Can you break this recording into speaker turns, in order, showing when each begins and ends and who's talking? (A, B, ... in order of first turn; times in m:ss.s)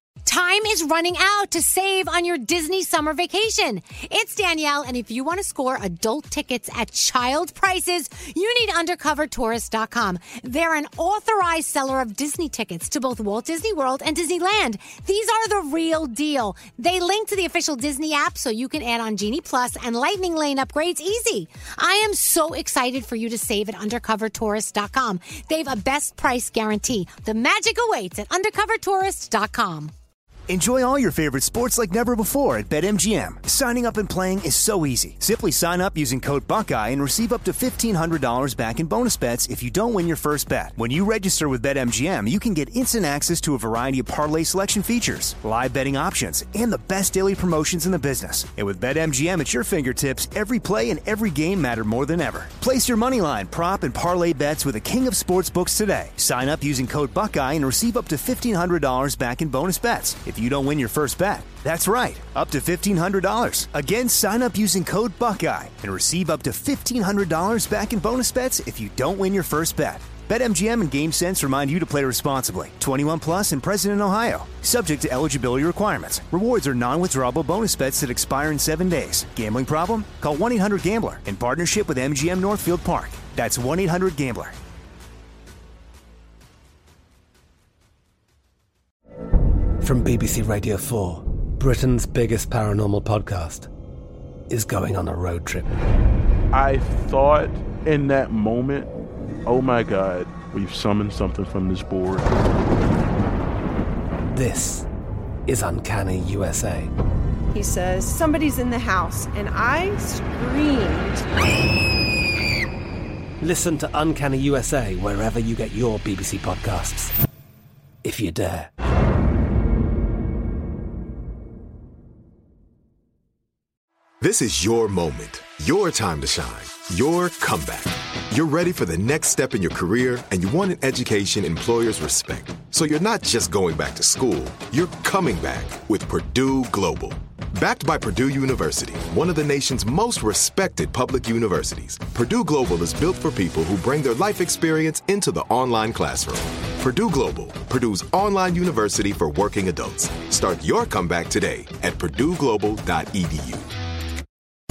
0:00.2-0:29.9 A
0:30.5-1:24.6 B
1:29.8-1:33.7 C
1:34.5-1:35.7 C
1:36.5-1:38.9 D
1:39.5-1:42.3 D
1:44.3-1:44.9 C
1:45.5-1:46.9 C
1:47.5-1:51.2 E
1:53.4-1:57.1 C
1:58.0-1:58.7 C
2:04.2-2:33.7 F